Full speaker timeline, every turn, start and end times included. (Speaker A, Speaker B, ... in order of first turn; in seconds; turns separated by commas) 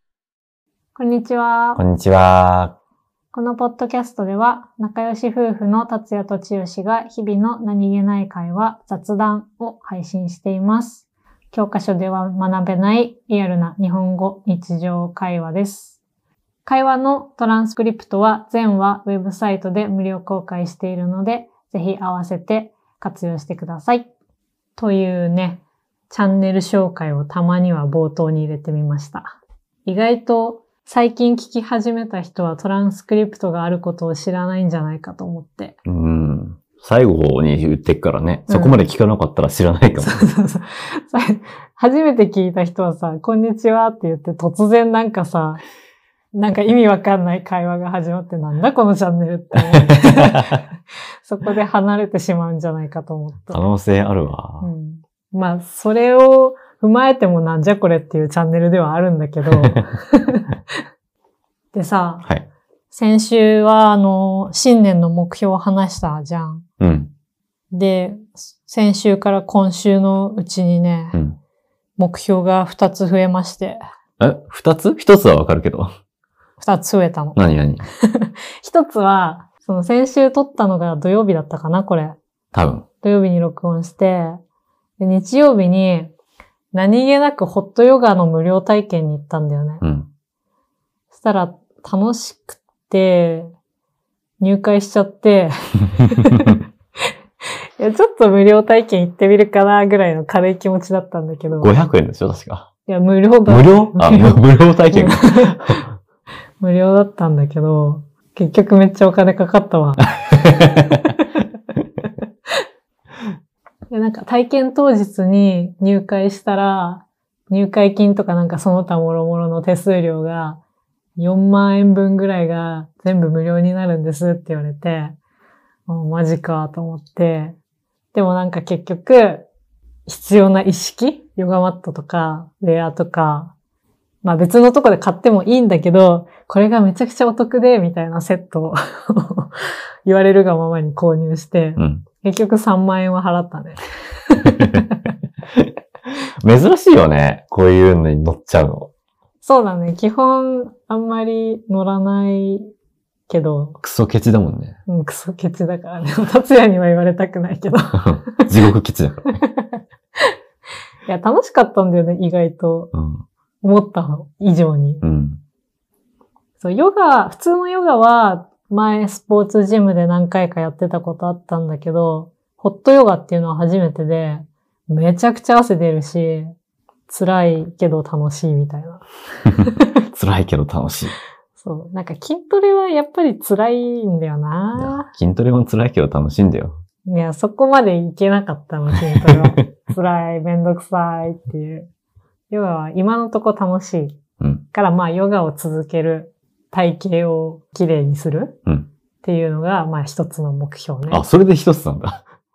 Speaker A: 0.9-1.8, Speaker B: 1.8-2.7, Speaker A: 3.3-16.0, Speaker A: 16.6-24.1, Speaker A: 24.8-35.8, Speaker B: 35.9-40.2, Speaker A: 38.5-38.8, Speaker A: 40.0-45.6, Speaker A: 46.3-50.6, Speaker B: 49.8-50.4, Speaker A: 51.2-53.7, Speaker B: 53.5-54.7, Speaker A: 54.6-60.5, Speaker A: 61.7-62.3, Speaker A: 62.9-66.6, Speaker B: 66.8-67.1, Speaker A: 67.7-71.2, Speaker A: 72.0-73.8, Speaker B: 74.2-75.9, Speaker A: 76.6-77.4, Speaker B: 77.3-77.8, Speaker A: 78.0-82.2, Speaker B: 82.5-82.8, Speaker A: 83.0-84.4, Speaker A: 85.0-86.1, Speaker A: 86.7-89.8, Speaker B: 89.8-90.1, Speaker A: 91.1-93.5, Speaker A: 94.4-96.6, Speaker A: 97.8-101.7, Speaker B: 101.6-102.7, Speaker A: 102.9-105.7, Speaker B: 103.5-105.8, Speaker A: 106.6-110.0, Speaker B: 110.3-111.0, Speaker A: 113.9-120.6, Speaker A: 121.2-125.2, Speaker A: 125.9-127.6, Speaker A: 128.1-129.5, Speaker A: 130.1-133.5, Speaker A: 134.2-139.5, Speaker A: 140.1-145.0, Speaker B: 141.8-142.0, Speaker B: 146.4-148.9, Speaker A: 149.4-152.7, Speaker A: 153.3-153.8, Speaker B: 153.8-154.8, Speaker A: 154.9-158.4, Speaker B: 157.9-159.4, Speaker A: 159.4-159.7, Speaker A: 161.1-162.9, Speaker B: 162.9-163.2, Speaker A: 163.6-165.0, Speaker B: 165.0-165.4, Speaker A: 166.6-176.5, Speaker A: 177.1-179.0, Speaker B: 180.1-181.1, Speaker A: 181.6-185.1, Speaker B: 184.7-186.8, Speaker A: 187.1-191.9, Speaker B: 189.1-189.6, Speaker A: 192.5-194.2, Speaker A: 194.7-198.6, Speaker A: 199.2-201.2, Speaker B: 201.1-202.2